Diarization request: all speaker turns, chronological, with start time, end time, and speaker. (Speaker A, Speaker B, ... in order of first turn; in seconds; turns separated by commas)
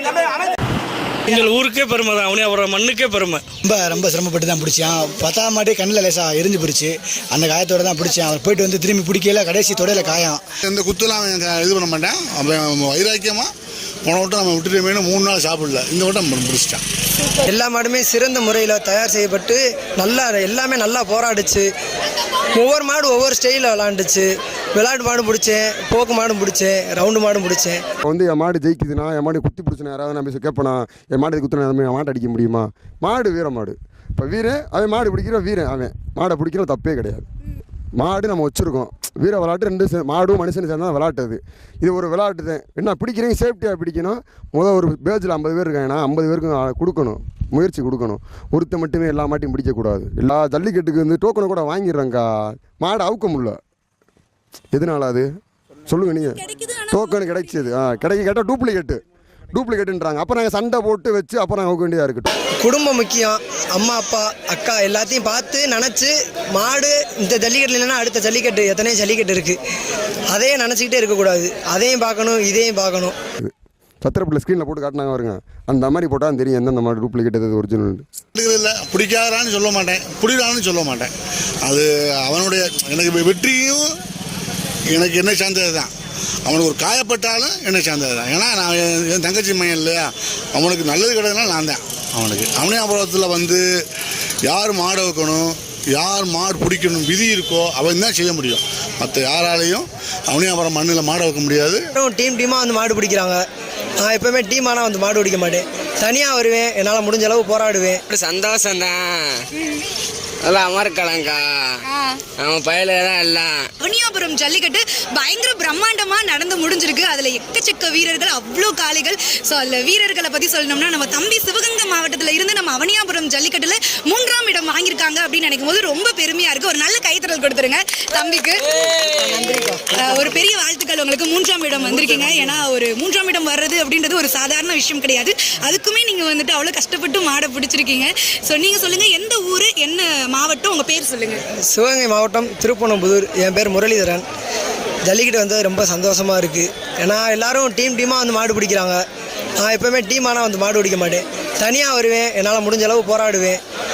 Speaker A: 1.2-3.4, Speaker B: 3.6-10.4, Speaker C: 10.6-13.5, Speaker C: 14.0-16.8, Speaker D: 17.4-21.7, Speaker D: 22.5-27.8, Speaker E: 28.0-37.2, Speaker E: 38.0-53.6, Speaker E: 54.7-55.3, Speaker E: 55.9-59.0, Speaker F: 56.3-57.7, Speaker E: 59.5-62.3, Speaker D: 62.6-69.6, Speaker D: 70.3-73.1, Speaker E: 73.4-78.0, Speaker C: 78.4-81.1, Speaker C: 81.6-83.8, Speaker C: 84.9-85.9, Speaker C: 86.5-93.6, Speaker C: 94.5-101.8, Speaker D: 102.0-103.4, Speaker D: 104.0-108.0, Speaker G: 108.1-109.3, Speaker G: 110.4-111.7, Speaker F: 111.8-112.2, Speaker G: 112.4-113.6, Speaker F: 113.8-128.7, Speaker D: 129.1-129.9, Speaker F: 129.9-141.4, Speaker D: 141.7-144.2, Speaker D: 145.0-149.0, Speaker D: 149.6-153.6